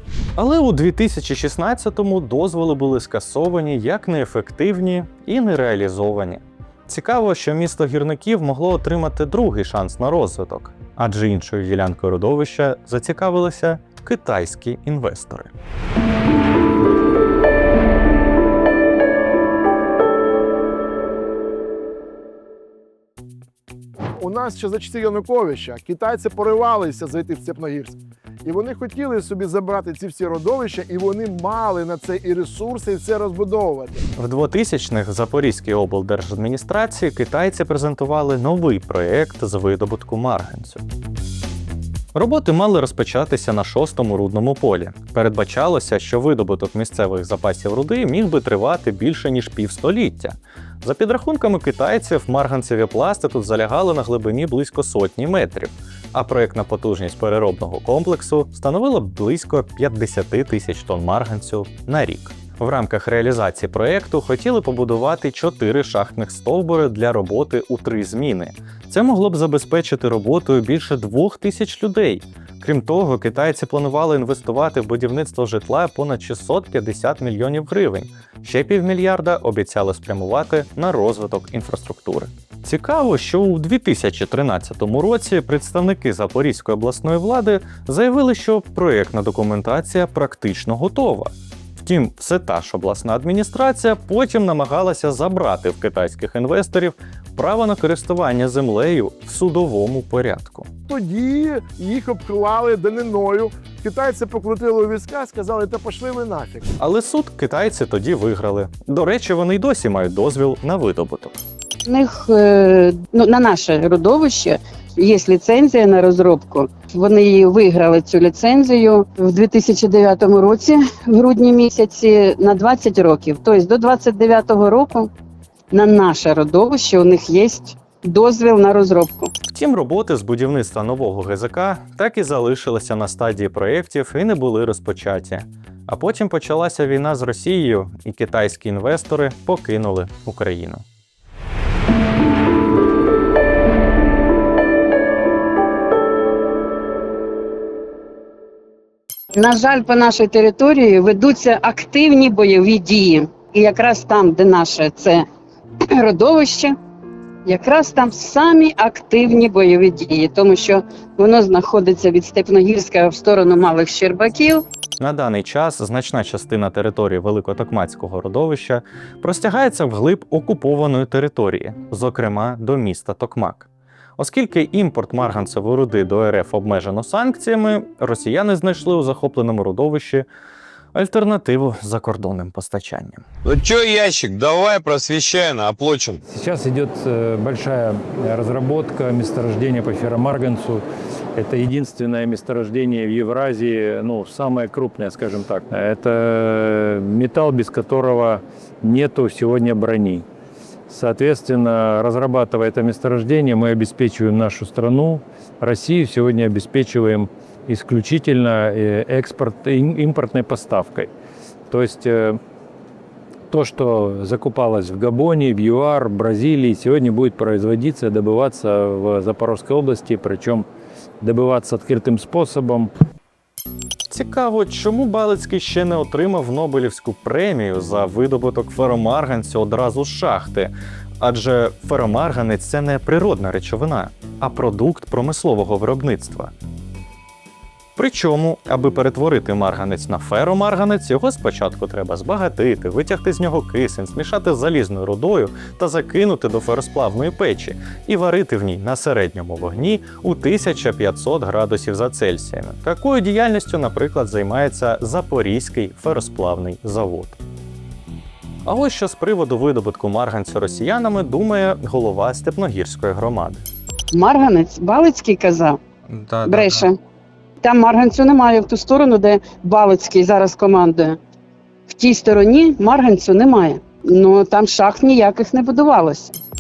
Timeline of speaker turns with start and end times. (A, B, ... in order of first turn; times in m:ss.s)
0:00.4-0:15.5 A
0:24.2-0:34.0 B
0:34.2-0:40.8 A
0:42.2-1:40.7 A
1:40.9-1:46.6 B
1:46.8-1:51.4 A
1:51.9-2:05.1 C
2:05.7-2:09.3 C
2:09.5-2:20.8 A
2:29.4-2:35.2 C
2:35.9-2:36.8 C
2:37.5-2:44.6 C
2:45.0-3:00.3 A
3:01.0-3:03.2 A
3:03.4-3:06.2 D
3:06.3-3:10.8 E
3:11.4-3:20.3 E
3:20.9-3:31.1 E
3:31.7-3:32.4 E
3:33.5-3:40.7 E
3:41.2-3:42.9 E
3:44.1-3:56.5 A
3:58.0-4:17.4 A
4:18.6-4:23.6 A
4:24.1-4:25.8 C
4:26.1-4:26.9 A
4:26.5-4:27.0 C
4:27.6-4:31.2 C
4:31.9-4:36.4 C